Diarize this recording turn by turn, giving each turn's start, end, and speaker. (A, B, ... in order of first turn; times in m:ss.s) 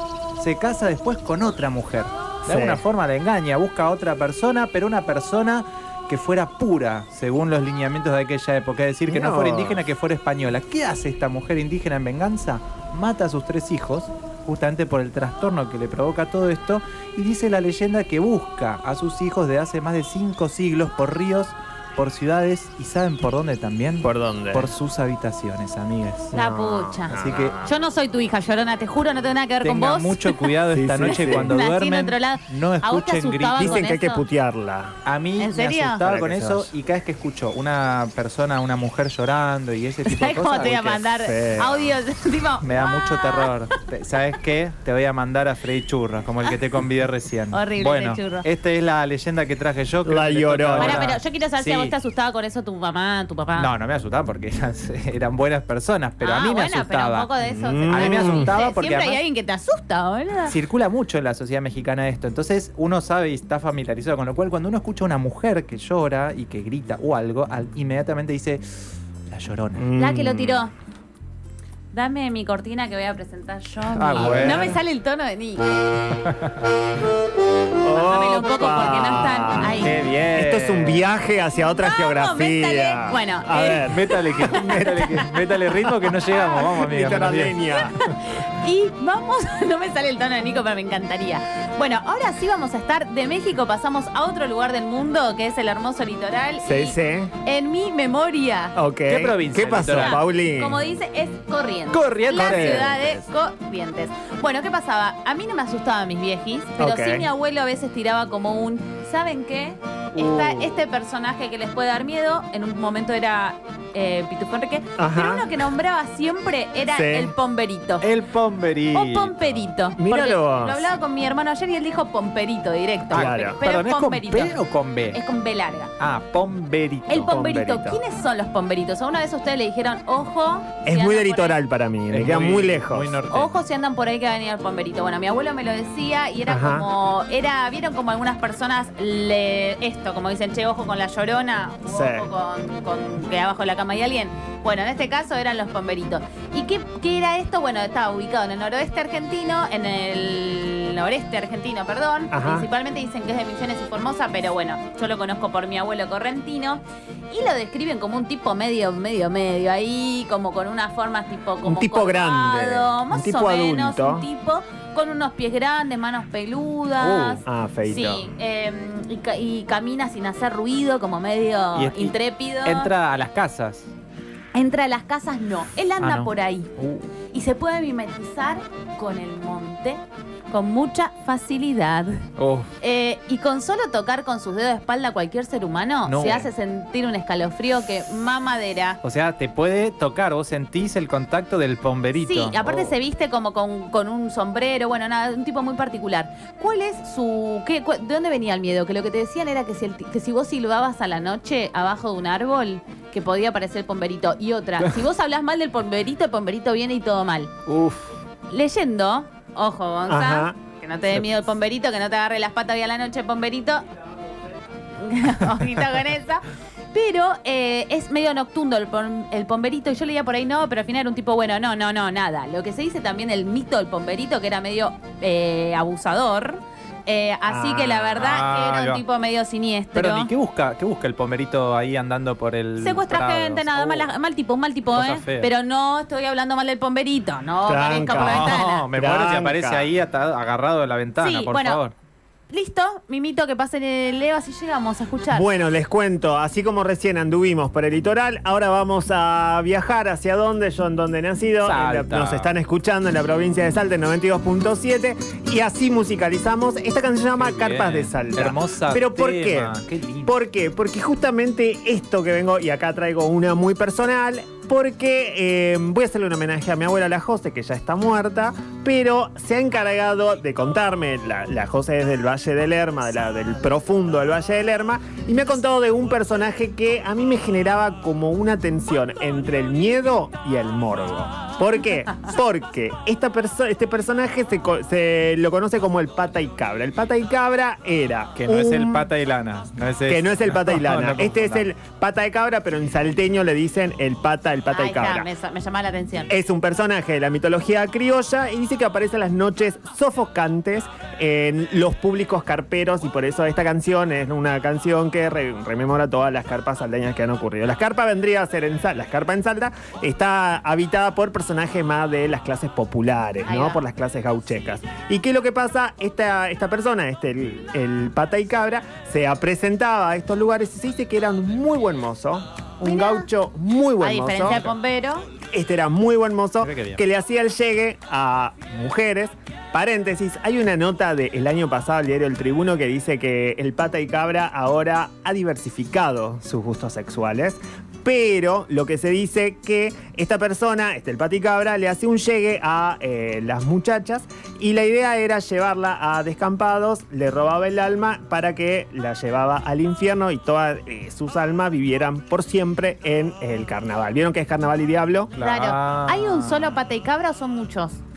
0:00.4-0:26.4 A
0:02.5-0:02.8 B
0:09.1-0:09.8 B
0:24.0-0:24.7 B
0:26.3-0:27.8 B
0:26.3-0:30.5 C
0:27.1-0:27.6 A
0:29.6-0:33.8 A
0:30.7-0:31.6 B
0:31.1-0:34.2 C
0:33.6-0:35.0 B
0:35.0-0:41.0 A
0:35.4-0:36.0 C
0:36.0-0:36.7 B
0:40.0-0:43.5 C
0:41.2-0:42.0 B
0:42.6-0:51.9 A
0:47.5-0:48.5 C
0:50.0-0:51.1 B
0:50.8-0:53.7 C
0:53.6-0:57.3 A
0:56.2-1:00.6 C
0:57.4-0:58.5 B
0:57.9-0:59.2 A
1:00.5-1:09.9 A
1:09.8-1:10.7 B
1:10.0-1:10.7 C
1:11.9-1:15.7 C
1:14.0-1:14.8 A
1:14.2-1:14.8 B
1:16.2-1:16.7 A
1:17.8-1:24.7 B
1:17.9-1:20.0 C
1:19.8-1:21.0 A
1:21.8-1:26.4 C
1:23.9-1:27.6 A
1:26.4-1:28.0 B
1:27.6-1:38.8 C
1:36.6-1:37.3 B
1:38.8-1:40.8 B
1:39.1-1:40.2 A
1:39.9-1:58.1 C
1:41.9-1:43.2 A
1:42.4-1:43.0 B
1:46.8-1:47.3 B
1:50.2-1:50.8 A
1:55.0-1:55.5 B
1:56.9-1:57.3 B
1:58.0-1:59.7 A
1:58.9-2:04.6 C
2:00.0-2:00.9 B
2:03.1-2:05.2 A
2:03.1-2:03.6 B
2:05.1-2:05.9 C
2:06.0-2:07.4 A
2:07.1-2:11.6 C
2:07.2-2:08.0 B
2:10.8-2:13.2 B
2:12.1-2:13.5 A
2:13.3-2:52.9 C
2:16.4-2:16.8 B
2:21.9-2:22.3 B
2:32.3-2:32.7 B
2:41.6-2:44.3 B
2:47.0-2:47.4 A
2:47.4-2:48.3 B
2:51.8-2:53.9 A
2:54.5-2:56.7 C
2:56.0-2:57.1 A
2:57.3-3:02.2 C
3:02.4-3:02.8 A
3:02.8-3:09.0 C
3:06.1-3:06.5 A
3:09.0-3:13.0 A
3:12.2-3:27.6 C
3:27.7-3:28.1 A
3:28.5-3:33.8 C
3:30.1-3:30.6 B
3:35.0-3:50.3 C
3:47.5-3:48.3 B
3:48.2-3:49.0 A
3:50.0-3:54.1 A
3:52.8-3:58.8 C
3:54.9-3:55.5 A
3:57.6-3:59.9 B
3:57.9-4:01.9 A
4:01.2-4:01.8 C
4:02.5-4:05.5 C
4:05.3-4:49.1 B
4:11.6-4:12.5 A
4:17.4-4:20.3 A
4:48.4-4:51.7 A
4:50.1-4:55.3 B
4:54.7-4:56.3 C
4:56.3-5:24.6 B
5:13.5-5:13.8 C
5:22.8-5:23.3 C
5:24.0-5:25.2 C
5:24.5-5:24.8 A
5:25.5-5:55.3 B
5:26.6-5:27.0 A
5:55.4-5:56.8 A
5:55.4-5:58.0 C